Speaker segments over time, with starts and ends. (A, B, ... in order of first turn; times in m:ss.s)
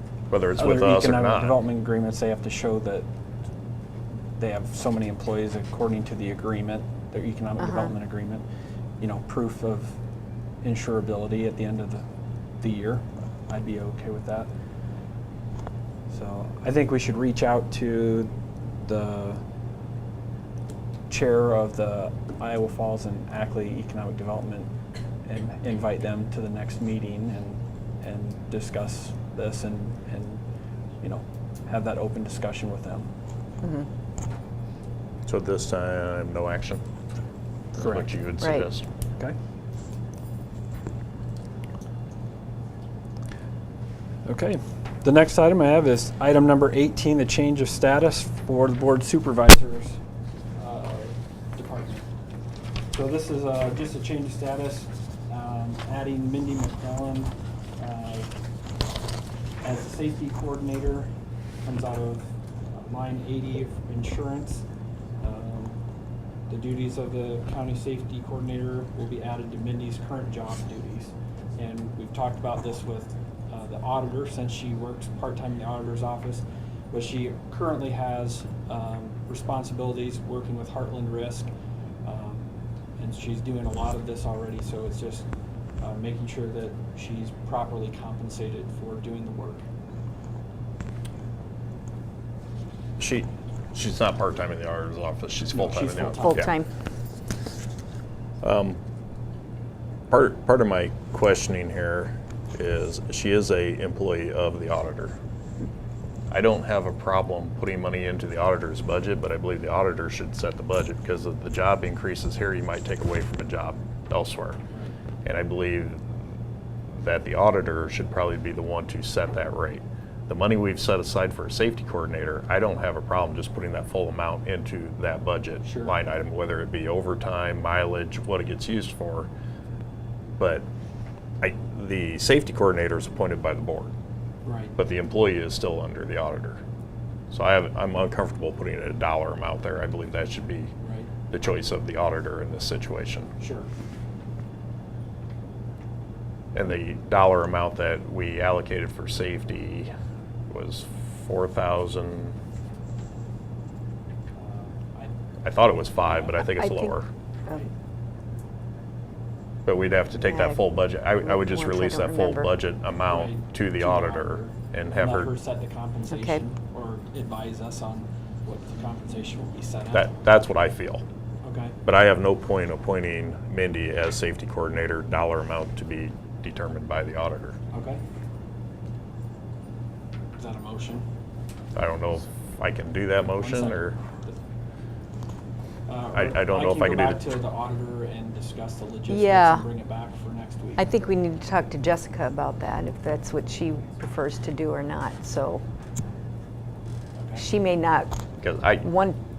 0:00.3-0:01.6 A
0:00.5-0:03.1 B
0:04.4-0:08.4 B
0:07.6-0:07.9 C
0:09.0-0:10.0 B
0:10.6-0:12.0 B
0:12.6-0:14.5 B
0:16.1-0:18.3 B
0:18.8-0:19.4 B
0:21.1-0:24.7 B
0:25.2-0:30.4 B
0:31.0-0:33.1 B
0:35.2-0:36.8 A
0:37.7-0:38.8 A
0:37.8-0:38.1 B
0:38.4-0:38.6 C
0:44.2-0:50.0 B
0:50.6-0:52.1 B
0:52.9-0:58.3 B
0:59.6-1:01.1 B
1:01.6-1:04.6 B
1:05.2-1:05.8 B
1:06.5-1:21.5 B
1:22.0-1:25.3 B
1:25.8-1:29.6 B
1:33.0-1:36.5 A
1:35.5-1:36.4 B
1:36.2-1:36.7 C
1:38.4-1:38.8 A
1:40.1-1:45.2 A
1:46.3-1:54.6 A
1:55.2-1:56.0 A
1:56.9-2:09.3 A
2:05.6-2:05.9 B
2:10.4-2:10.6 A
2:11.4-2:13.9 A
2:14.4-2:14.8 B
2:14.8-2:16.6 A
2:17.3-2:20.7 A
2:20.8-2:21.1 B
2:21.3-2:23.3 A
2:23.4-2:23.7 B
2:26.5-2:29.9 A
2:30.5-2:32.4 A
2:34.3-2:35.1 B
2:35.4-2:37.1 A
2:36.0-2:36.4 B
2:36.4-2:36.9 C
2:39.6-2:45.3 A
2:40.2-2:40.6 C
2:41.2-2:42.5 C
2:43.0-2:50.1 B
2:46.1-2:46.4 C
2:49.9-2:51.0 A
2:51.4-2:51.8 B
2:51.8-2:57.6 A
2:57.7-2:58.0 B
3:00.4-3:01.0 B
3:01.7-3:04.0 A
3:03.3-3:04.4 B
3:05.9-3:10.9 B
3:06.1-3:07.2 A
3:09.1-3:09.7 C
3:10.8-3:15.6 C
3:17.2-3:17.4 B
3:17.4-3:18.2 C
3:18.4-3:18.9 A
3:18.8-3:19.2 C